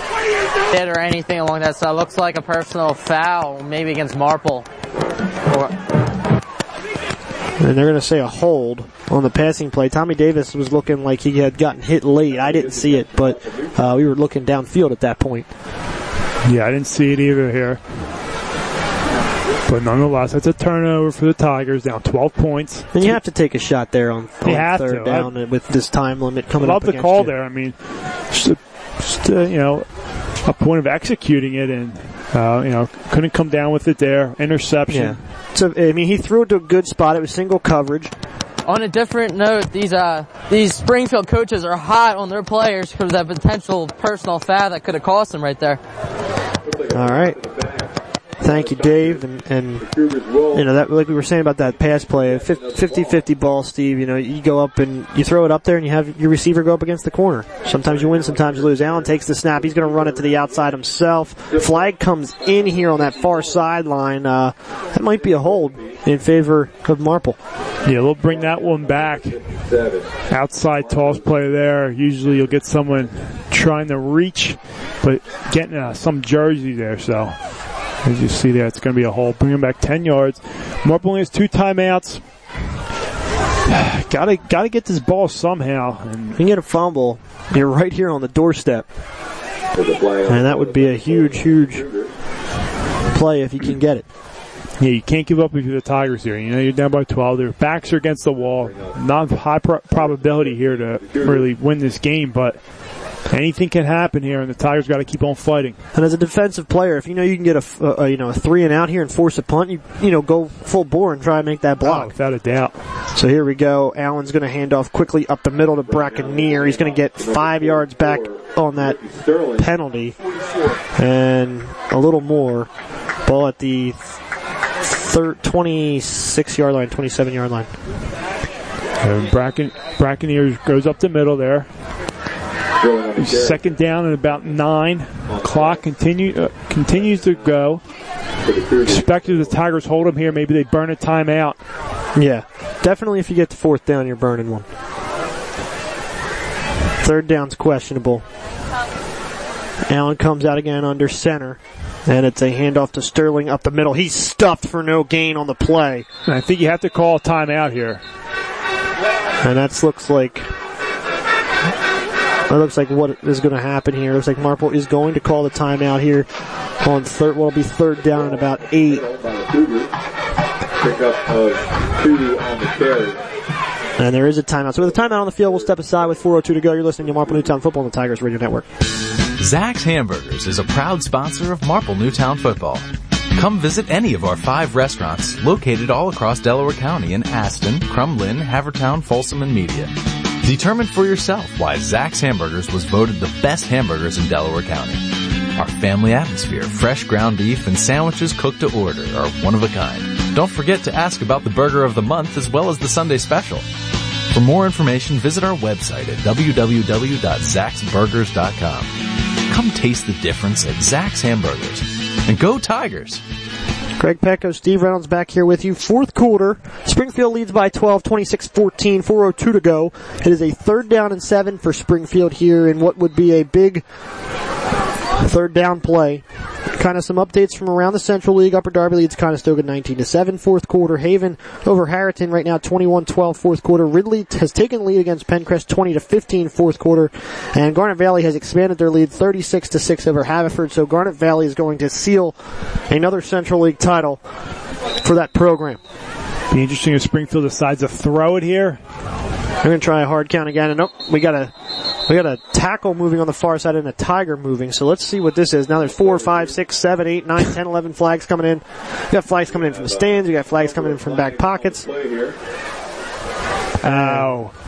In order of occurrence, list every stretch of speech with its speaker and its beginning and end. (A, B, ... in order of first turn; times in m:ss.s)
0:00.7-0:04.7 A
0:05.5-0:05.7 A
0:07.6-0:15.5 B
0:12.4-0:13.8 C
0:16.4-0:17.8 D
0:19.7-0:23.2 D
0:22.9-0:27.3 B
0:24.4-0:25.3 D
0:26.6-0:27.8 D
0:28.3-0:29.9 D
0:30.4-0:35.2 D
0:34.9-0:38.1 B
0:38.6-0:45.8 A
0:46.6-0:47.9 C
0:46.9-0:47.4 B
0:48.4-0:49.8 B
0:48.4-0:49.2 C
0:49.8-0:50.7 C
0:50.5-1:07.4 B
0:51.6-0:53.2 C
0:57.8-1:00.6 C
1:01.5-1:01.8 C
1:02.5-1:03.6 C
1:05.4-1:06.0 C
1:07.8-1:09.4 D
1:08.3-1:10.2 C
1:10.3-1:17.4 D
1:10.7-1:11.4 C
1:18.0-1:22.2 D
1:23.7-1:26.4 D
1:26.4-1:28.9 B
1:29.7-1:32.1 C
1:30.3-1:31.8 B
1:33.1-1:34.1 B
1:34.8-1:42.6 D
1:38.5-1:39.0 C
1:40.0-1:41.5 C
1:43.3-1:45.8 D
1:46.0-1:52.1 B
1:51.8-1:52.8 D
1:53.2-1:59.0 B
1:55.8-1:59.7 C
1:59.6-2:00.2 B
2:01.0-2:02.7 B
2:03.2-2:04.0 B
2:04.8-2:07.7 B
2:09.0-2:11.7 D
2:12.8-2:13.7 C
2:13.2-2:17.8 D
2:15.3-2:15.8 C
2:18.4-2:19.6 C
2:18.9-2:21.6 D
2:22.2-2:24.7 B
2:27.0-2:28.2 B
2:29.9-2:36.1 B
2:36.3-2:38.0 D
2:39.4-2:40.5 B
2:42.5-2:46.3 B
2:46.8-2:49.0 B
2:48.1-2:49.9 C
2:50.8-2:53.2 C
2:54.0-2:58.6 B
2:59.4-3:15.0 E
3:15.6-3:23.6 E
3:24.3-3:28.9 E
3:29.5-3:33.2 E
3:34.0-3:43.8 B
3:45.2-3:46.2 B
3:46.8-4:02.4 B
4:02.9-4:04.2 B
4:05.0-4:05.8 B
4:06.5-4:08.8 D
4:09.6-4:11.5 B
4:12.1-4:21.9 B
4:16.0-4:16.6 C
4:19.5-4:22.4 C
4:23.8-4:24.4 B
4:23.8-4:24.5 D